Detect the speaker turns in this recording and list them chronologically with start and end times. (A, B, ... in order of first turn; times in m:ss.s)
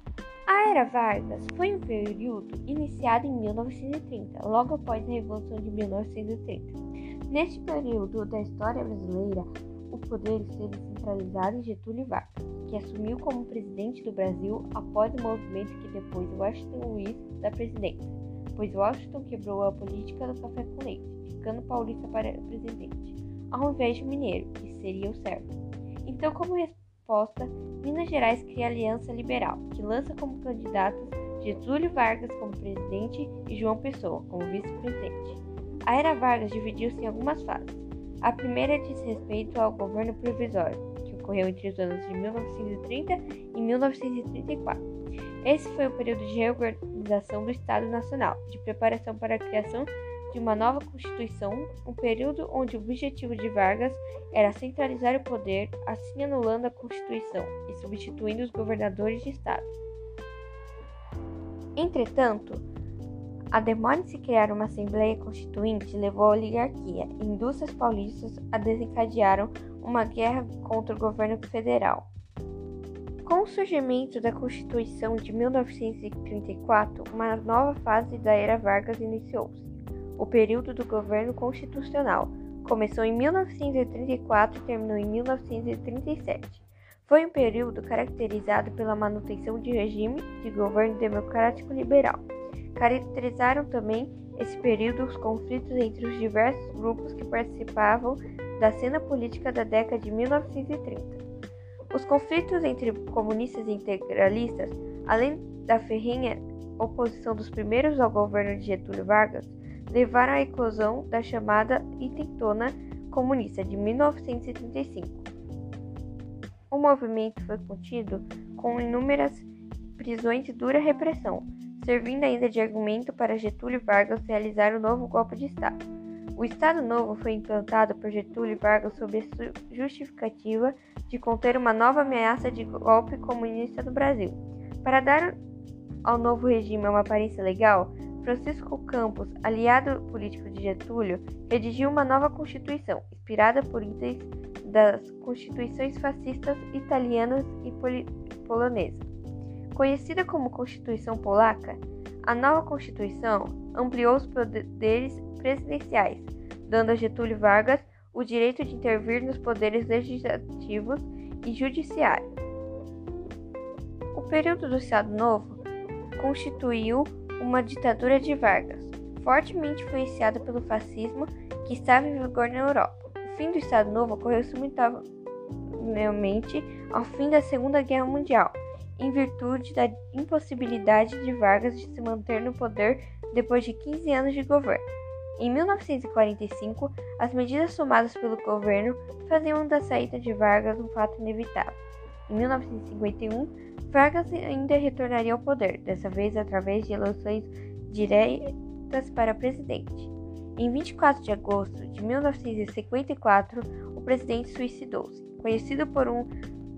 0:00.5-0:44.8 A
0:45.4-0:59.7 A
1:01.8-1:02.6 A
1:03.5-1:12.1 A
1:13.2-1:41.2 A
1:41.9-1:55.3 A
1:56.7-2:05.8 A
2:06.4-2:15.4 A
2:16.0-2:29.0 A
2:29.7-2:42.3 A
2:44.1-2:45.6 A
2:46.2-2:55.0 A
2:55.8-3:04.8 A
3:05.4-3:26.3 A